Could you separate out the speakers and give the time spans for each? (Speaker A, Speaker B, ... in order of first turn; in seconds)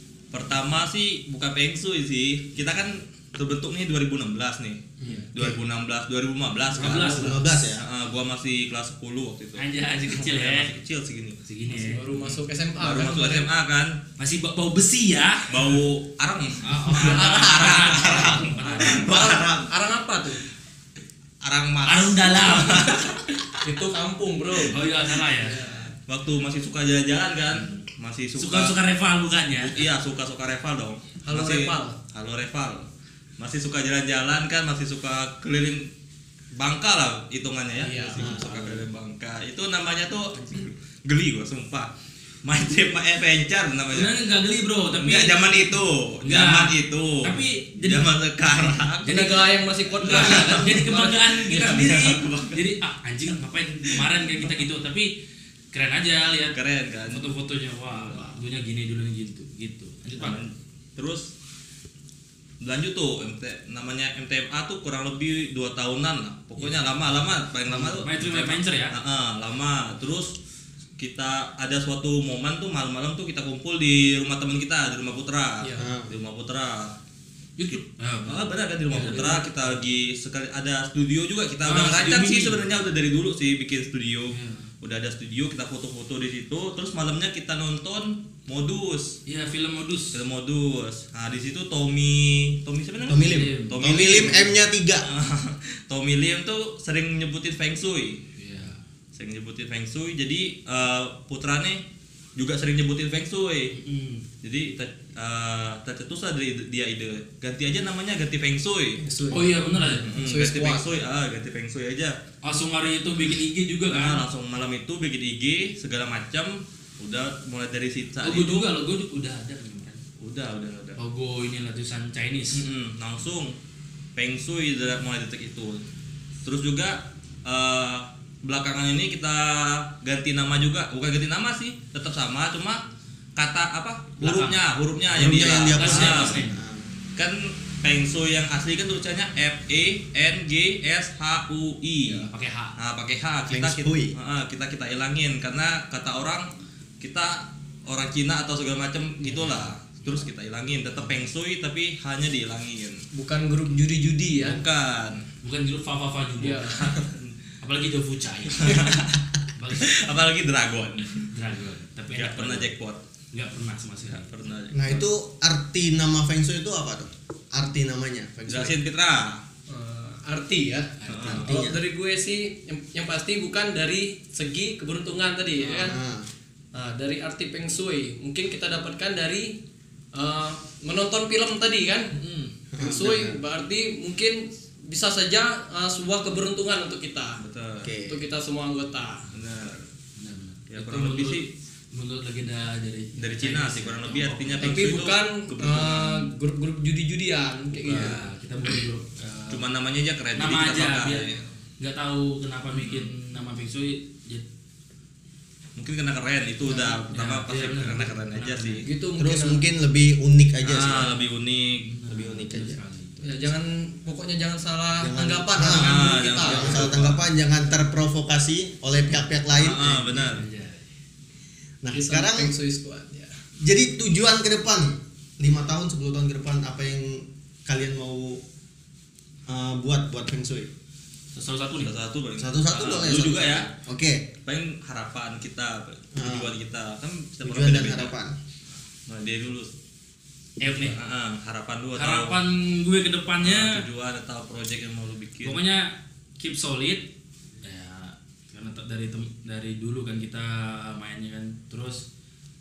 Speaker A: 0.3-11.4, 12.8-13.9, 15.5-19.7, 21.4-23.2, 26.1-28.7, 29.6-32.9, 33.4-35.9, 36.5-41.9, 42.4-44.1, 45.0-49.0, 50.0-50.8, 51.6-52.6, 56.5-57.2, 57.9-58.3, 60.2-61.3, 62.6-70.3, 71.0-76.9, 77.7-89.2, 90.1-94.5, 95.0-98.2, 99.1-101.8, 102.3-103.7, 104.4-109.0, 110.0-112.2, 113.9-118.7, 120.2-121.0, 122.5-123.5, 124.2-125.8, 126.4-132.8, 133.3-136.4, 137.2-146.5, 147.0-153.0, 154.4-155.2, 156.8-157.3, 158.6-159.2, 159.8-161.3, 162.1-163.0, 164.1-165.1, 168.5-169.4, 171.1-171.5, 187.4-187.9, 189.3-189.9, 190.7-191.5, 193.2-196.3, 197.8-198.2, 199.5-201.4, 202.8-203.1, 205.8-208.8, 210.6-211.9, 215.6-217.2, 219.6-220.4, 231.8-233.7, 234.4-238.1, 239.1-239.7, 240.9-242.3, 243.4-245.6
Speaker B: 6.8-7.4, 9.6-10.7, 11.4-12.1, 14.2-15.7, 16.6-19.0, 21.9-23.0, 24.7-25.6, 28.4-29.8, 43.9-45.4, 46.2-48.0, 49.0-49.4, 50.0-55.1, 55.7-56.5, 57.1-60.4, 67.7-68.9, 77.6-79.6, 81.6-82.6, 84.3-84.7, 89.2-90.2, 93.1-94.5, 98.3-98.8, 103.7-104.2, 109.3-110.1, 112.4-114.2, 118.2-120.0, 121.0-122.6, 134.2-134.6, 135.3-136.5, 142.1-142.7, 149.2-149.7, 155.4-156.6, 157.6-158.9, 159.6-159.9, 161.3-162.7, 163.3-164.2, 171.1-171.3, 175.6-175.9, 190.2-195.0, 197.8-199.6, 200.3-201.3, 201.8-204.4, 206.7-208.8, 211.9-213.5, 220.3-220.9, 231.3-231.9, 240.6-241.0, 241.9-243.8, 245.4-247.1, 247.6-252.0
Speaker C: 6.8-7.8, 38.2-38.5, 75.8-76.2, 93.1-95.0, 135.1-136.9, 143.5-144.2, 164.7-168.8, 171.2-171.8, 175.8-176.3, 182.7-183.4, 187.8-188.2, 209.2-211.2, 212.1-212.8, 215.0-220.3, 221.8-222.5, 223.6-228.4, 229.5-230.7, 232.4-234.3, 236.2-236.5, 237.4-238.3
Speaker D: 11.7-13.5, 17.0-20.4, 23.6-25.9, 31.2-31.9, 37.8-38.4, 49.0-52.0, 109.0-110.9, 153.1-154.6, 156.4-157.0, 169.7-176.0, 176.7-179.6, 180.1-182.1, 182.8-187.4, 188.1-189.3, 194.6-198.2, 208.8-209.6, 213.2-217.0, 221.9-223.3